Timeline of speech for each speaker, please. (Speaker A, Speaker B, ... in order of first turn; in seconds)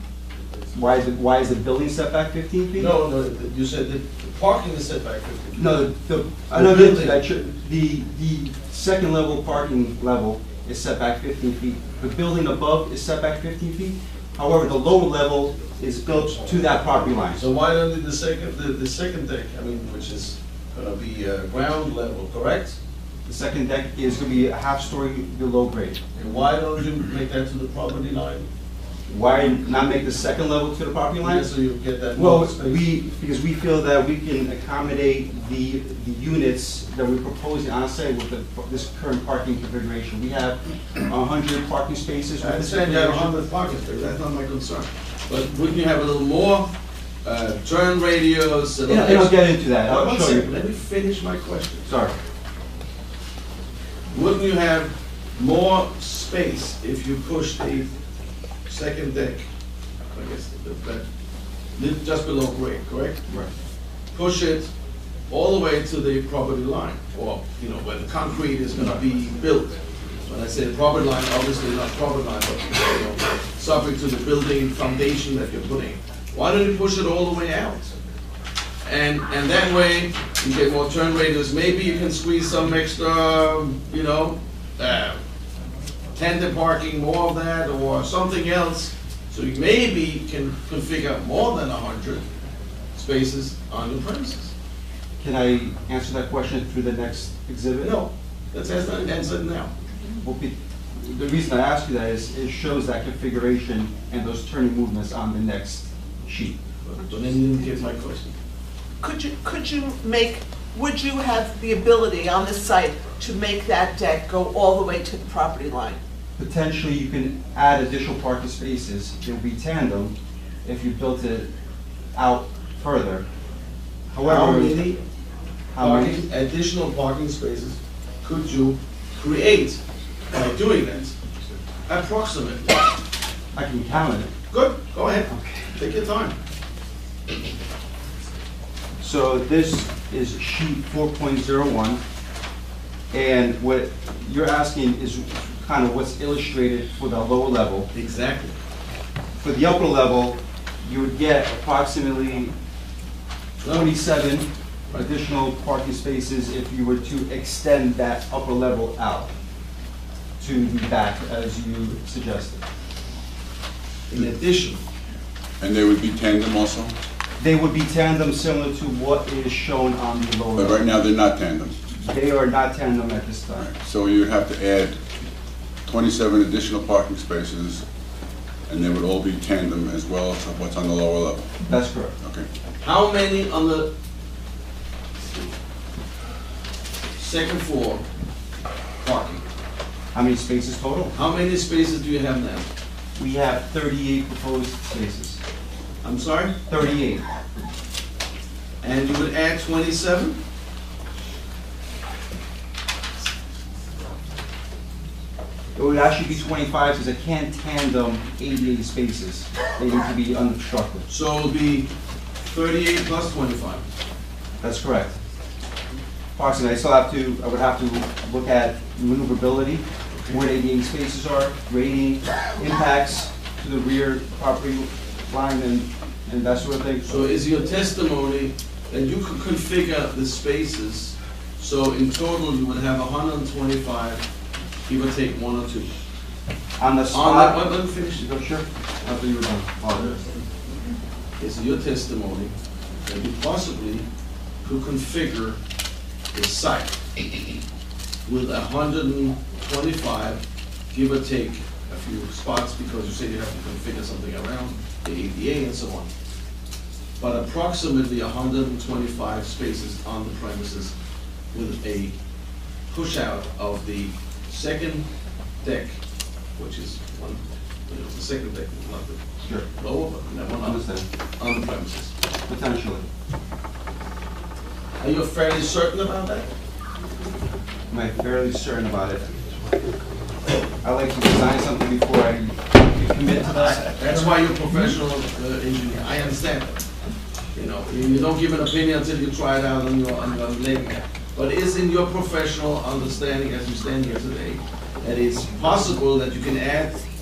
Speaker A: 0.7-2.9, 5.5-17.4, 23.2-26.0, 29.1-31.5, 32.1-43.4, 48.9-50.5, 51.9-52.1, 95.2-98.1, 100.2-106.6, 116.4-121.5, 122.1-123.2, 124.1-124.8, 125.7-126.2, 133.5-134.3, 135.3-135.8, 139.0-142.0, 143.1-147.9, 149.4-152.5, 153.7-159.3, 160.4-162.6, 167.4-170.9, 171.9-173.7, 181.7-182.1, 190.1-191.1, 193.2-195.4, 196.7-197.2, 205.7-211.1, 214.6-215.1, 216.3-227.2, 236.8-240.2, 270.6-271.0, 272.5-273.1, 277.9-279.3, 280.8-284.3
Speaker B: 2.8-5.9, 6.5-7.2, 17.3-22.8, 26.1-28.5, 31.2-32.8, 42.4-46.7, 47.2-51.9, 54.1-57.9, 58.7-59.5, 60.1-61.0, 61.8-63.2, 64.1-64.7, 65.3-69.7, 70.3-77.9, 78.8-85.2, 86.2-92.2, 92.9-94.5, 97.8-99.7, 106.8-108.3, 124.2-125.0, 125.8-129.8, 130.3-131.1, 131.9-132.9, 134.5-136.3, 147.9-148.6, 153.6-153.9, 164.1-164.8, 182.8-183.9, 187.2-188.0, 189.0-189.4, 191.1-192.7, 196.0-196.5, 198.8-200.4, 211.1-213.8, 220.1-220.4, 227.0-234.2, 234.9-235.9, 237.1-238.2, 241.4-242.5, 243.1-244.1, 244.6-245.6, 246.3-247.2, 248.2-250.4, 250.9-256.1, 257.2-260.9, 261.5-262.1, 262.9-265.1, 265.6-266.0, 266.6-270.8, 271.4-272.1, 275.0-276.5, 283.6-286.8, 287.5-297.0
Speaker C: 109.0-116.0
Speaker D: 165.6-166.9, 170.6-171.8, 173.6-175.0, 175.8-177.8, 178.7-181.5, 182.2-182.5